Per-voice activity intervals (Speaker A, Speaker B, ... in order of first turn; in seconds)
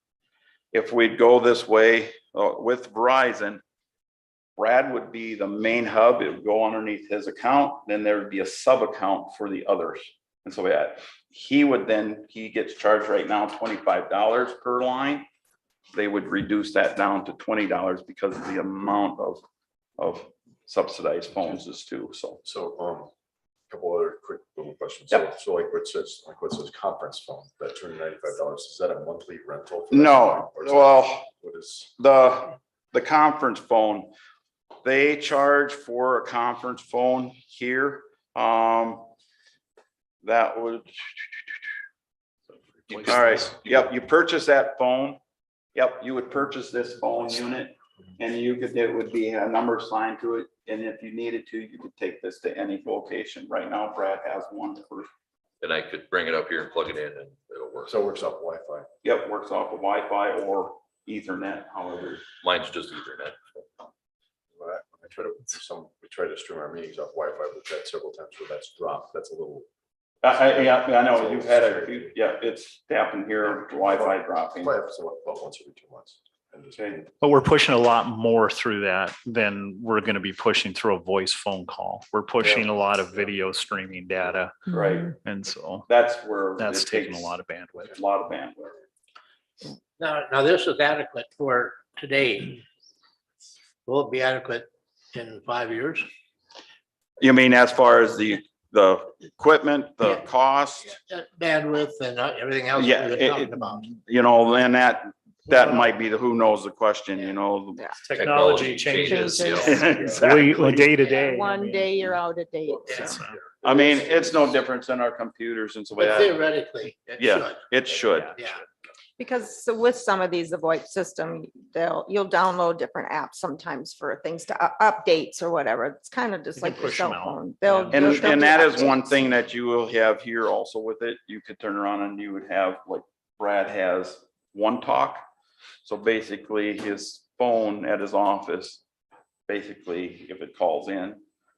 Speaker A: 0.7-3.6, 4.6-15.2, 15.9-19.4, 20.0-22.4, 29.9-31.3, 32.0-34.1, 34.8-39.1, 40.2-41.6, 43.0-45.2, 45.7-55.1, 59.0-62.2, 70.2-74.7, 82.4-82.7, 84.7-85.2, 85.9-88.8, 97.2-100.9, 102.8-107.9, 109.5-110.9, 113.6-116.4, 117.2-118.3, 127.9-135.2, 135.8-138.8, 139.5-141.2
Speaker B: 22.4-23.1, 23.7-31.9, 57.9-58.9, 64.5-69.7, 70.3-72.2, 73.8-77.1, 83.0-83.4, 112.7-113.1
Speaker C: 42.9-43.9, 55.6-58.0, 62.4-63.4, 108.1-109.9
Speaker D: 77.2-84.6, 85.2-85.9, 86.6-87.9, 108.0-112.2, 118.0-118.3, 126.5-128.8
Speaker E: 90.0-92.6, 93.8-96.0, 100.8-103.8, 105.5-105.9, 112.8-114.0, 116.0-117.6, 118.3-118.6
Speaker F: 108.8-110.2, 110.9-113.1, 119.2-129.3